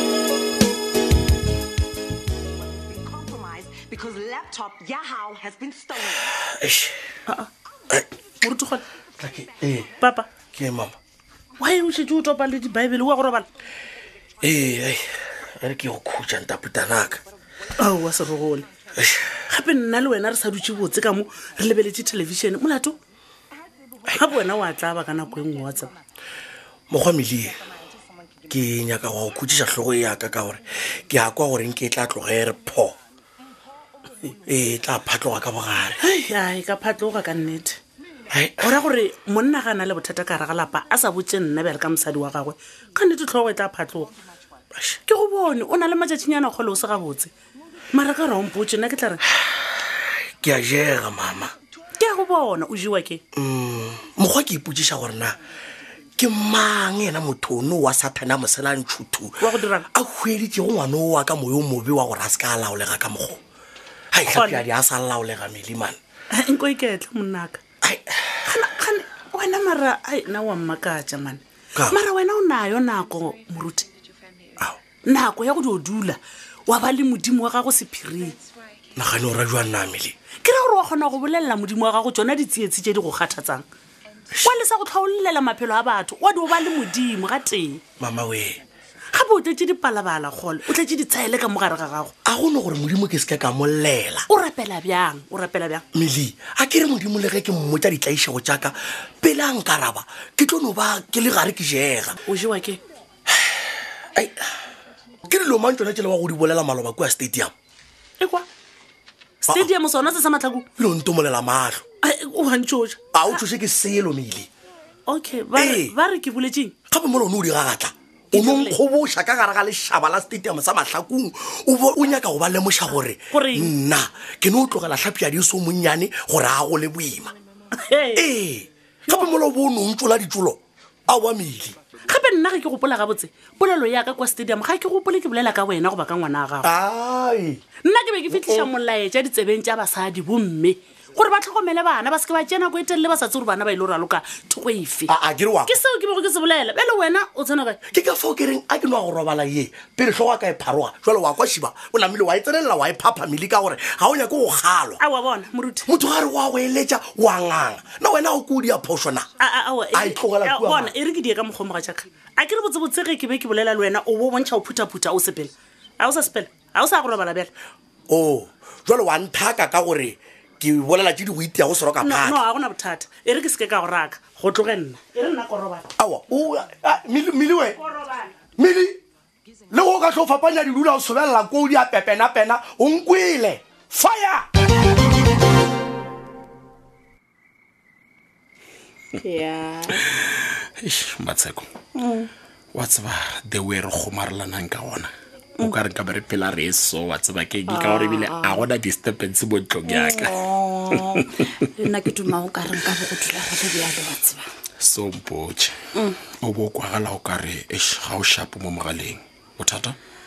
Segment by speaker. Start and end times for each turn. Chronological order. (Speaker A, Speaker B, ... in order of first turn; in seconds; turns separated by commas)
Speaker A: 2.7-6.3, Speaker B: 6.5-7.0, Speaker C: 8.4-8.8, Speaker B: 9.2-9.9, Speaker C: 10.0-10.3, Speaker B: 10.5-10.9, Speaker C: 11.6-13.5, Speaker B: 14.4-15.0, Speaker B: 15.6-17.2, Speaker C: 17.8-18.7, Speaker C: 19.5-23.0, Speaker C: 24.1-25.9, Speaker B: 26.9-27.6, Speaker B: 28.5-33.0, Speaker B: 34.4-36.0, Speaker C: 36.0-37.8, Speaker B: 38.3-38.7, Speaker C: 38.6-44.1, Speaker C: 45.1-47.3, Speaker C: 47.9-49.2, Speaker B: 49.9-51.5, Speaker C: 52.0-53.2, Speaker B: 53.3-55.4, Speaker B: 56.2-63.4, Speaker C: 59.4-59.9, Speaker B: 64.1-66.0, Speaker C: 64.3-64.7, Speaker C: 66.3-67.6, Speaker B: 67.8-68.3, Speaker C: 68.5-73.9, Speaker C: 75.0-78.4, Speaker B: 78.9-80.1, Speaker C: 80.4-83.6, Speaker C: 84.4-87.8, Speaker B: 88.0-88.6, Speaker C: 89.1-92.1, Speaker B: 92.2-94.3, Speaker C: 94.3-95.8, Speaker B: 95.9-102.2, Speaker C: 102.3-102.8, Speaker B: 104.1-104.5, Speaker B: 105.2-107.5, Speaker C: 108.2-108.5, Speaker C: 109.4-110.7, Speaker B: 110.8-111.8, Speaker C: 112.0-113.4, Speaker B: 113.1-114.5, Speaker C: 115.1-116.7, Speaker B: 115.5-115.9, Speaker B: 116.9-127.3, Speaker C: 118.3-118.8, Speaker C: 123.3-123.7, Speaker C: 127.8-128.2, Speaker B: 128.1-131.8, Speaker C: 132.1-136.7, Speaker B: 136.6-137.6, Speaker C: 137.8-145.1, Speaker B: 138.3-138.7, Speaker B: 145.1-145.8, Speaker C: 145.7-147.8, Speaker B: 147.9-155.0, Speaker C: 155.0-155.8, Speaker B: 155.8-159.3, Speaker C: 159.4-167.5, Speaker B: 159.9-160.9, Speaker B: 168.1-172.4, Speaker C: 172.0-175.8, Speaker B: 176.0-177.8, Speaker C: 177.8-178.3, Speaker B: 178.6-179.0, Speaker B: 179.7-184.4, Speaker D: 189.2-190.0, Speaker E: 189.9-191.7, Speaker D: 192.0-192.3, Speaker E: 192.7-202.1, Speaker D: 197.7-198.7, Speaker D: 199.8-201.2, Speaker D: 201.8-204.5, Speaker E: 204.8-205.7, Speaker E: 206.4-210.0